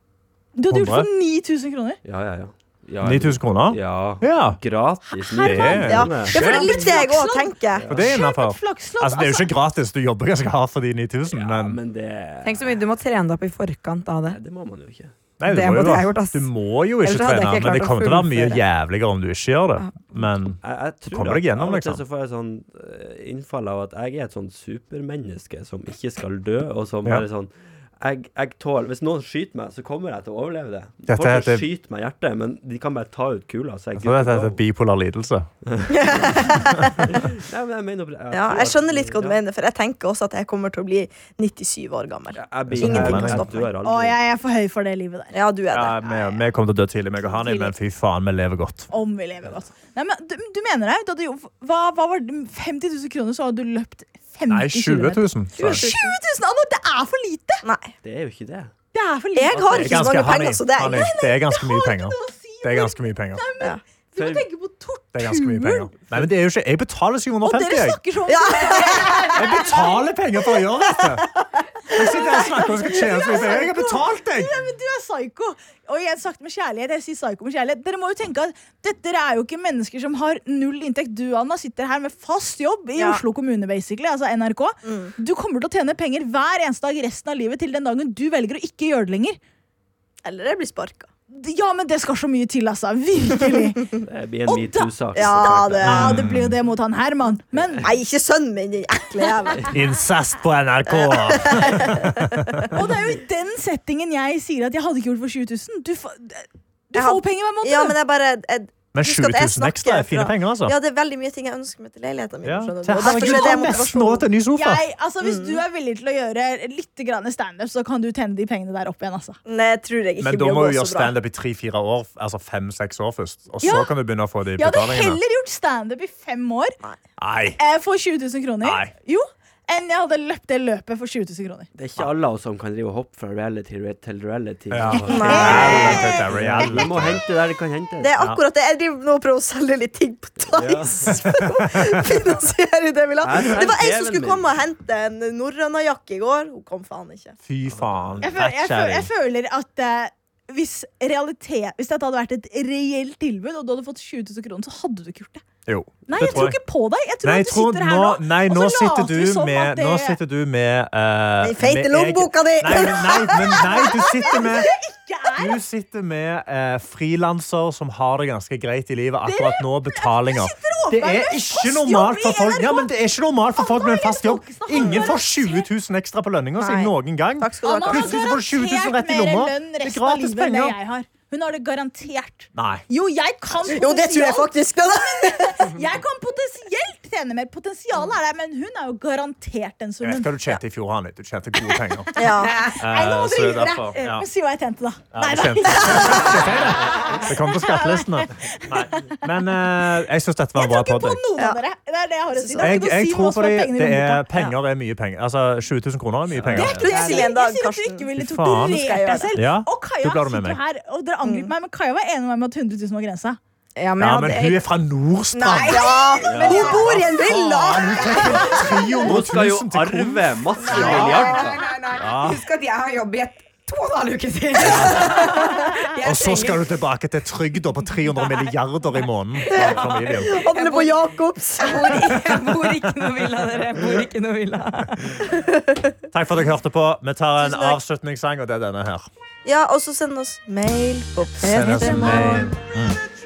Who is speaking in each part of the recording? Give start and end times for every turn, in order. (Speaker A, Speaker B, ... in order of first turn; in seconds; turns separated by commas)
Speaker A: 0.6-2.0, Speaker B: 0.7-1.1, Speaker C: 2.0-6.6, Speaker B: 3.0-4.6, Speaker A: 5.2-9.5, Speaker B: 5.4-6.7, Speaker D: 5.9-7.9, Speaker C: 7.7-8.1, Speaker B: 7.9-11.8, Speaker C: 11.3-12.9, Speaker E: 12.4-14.4, Speaker C: 14.3-15.2, Speaker B: 15.4-22.0, Speaker E: 15.4-16.5, Speaker E: 17.0-18.6, Speaker C: 20.6-34.6, Speaker B: 31.1-31.7, Speaker B: 34.0-35.5, Speaker C: 35.6-39.4, Speaker D: 36.0-37.0, Speaker D: 38.3-43.7, Speaker C: 42.3-44.2, Speaker B: 42.7-43.5, Speaker A: 43.8-45.3, Speaker D: 45.3-46.4, Speaker B: 45.7-48.9, Speaker A: 48.9-57.6, Speaker B: 54.5-55.9, Speaker D: 55.6-56.2, Speaker D: 57.6-57.9, Speaker C: 58.0-58.7, Speaker A: 58.9-65.9, Speaker D: 59.4-61.1, Speaker B: 59.6-63.4, Speaker C: 64.2-64.5, Speaker B: 65.1-68.0, Speaker A: 67.4-69.9, Speaker D: 68.3-69.4, Speaker B: 69.3-71.3, Speaker B: 71.9-74.5, Speaker A: 71.9-89.4, Speaker D: 84.8-85.1, Speaker D: 90.2-91.1, Speaker A: 91.3-93.8, Speaker C: 94.1-96.0, Speaker A: 94.5-94.9, Speaker D: 95.2-96.2, Speaker B: 95.8-96.6, Speaker A: 95.8-97.9, Speaker D: 97.8-99.8, Speaker B: 99.7-102.8, Speaker D: 100.9-102.7, Speaker A: 102.7-108.0, Speaker D: 107.0-114.2, Speaker B: 108.9-110.8, Speaker B: 112.4-114.8, Speaker A: 113.0-113.8, Speaker A: 114.5-119.4, Speaker D: 115.2-115.6, Speaker D: 119.5-121.1, Speaker B: 120.2-125.2, Speaker A: 123.6-123.9, Speaker A: 124.6-126.8, Speaker B: 127.2-127.6, Speaker A: 127.6-131.7, Speaker B: 128.6-128.9, Speaker C: 131.8-138.2, Speaker B: 134.7-137.2, Speaker A: 134.9-136.7, Speaker D: 135.1-136.1, Speaker D: 138.0-147.4, Speaker C: 140.5-141.3, Speaker B: 141.1-142.2, Speaker C: 143.2-144.5, Speaker B: 147.4-149.1, Speaker C: 147.7-148.2, Speaker A: 148.2-155.4, Speaker B: 155.7-156.6, Speaker A: 156.1-160.2, Speaker B: 157.2-164.7, Speaker D: 161.4-164.6, Speaker A: 162.7-165.6, Speaker B: 165.4-180.8, Speaker A: 169.2-172.9, Speaker A: 173.6-175.7, Speaker D: 176.6-178.3, Speaker A: 177.6-190.4, Speaker B: 182.5-182.8, Speaker D: 183.6-185.7, Speaker B: 190.0-192.2, Speaker A: 191.7-199.9, Speaker D: 192.2-192.7, Speaker B: 192.8-194.3, Speaker B: 195.1-201.2, Speaker A: 200.6-204.2, Speaker D: 202.3-202.8, Speaker B: 202.6-206.8, Speaker C: 206.3-207.1, Speaker A: 206.5-213.4, Speaker D: 206.6-208.1, Speaker B: 208.2-210.6, Speaker D: 208.6-209.4, Speaker D: 211.2-211.5, Speaker E: 213.8-214.6, Speaker B: 214.0-222.5, Speaker E: 215.3-218.9, Speaker D: 215.7-216.9, Speaker C: 216.2-216.8, Speaker A: 216.4-218.8, Speaker D: 217.9-218.5, Speaker C: 219.0-221.7, Speaker E: 220.6-226.7, Speaker B: 224.6-230.4, Speaker E: 229.4-235.2, Speaker D: 229.5-232.1, Speaker B: 232.2-233.1, Speaker D: 235.3-235.9, Speaker B: 236.1-239.1, Speaker D: 237.4-237.8, Speaker D: 239.4-242.5, Speaker B: 241.4-243.0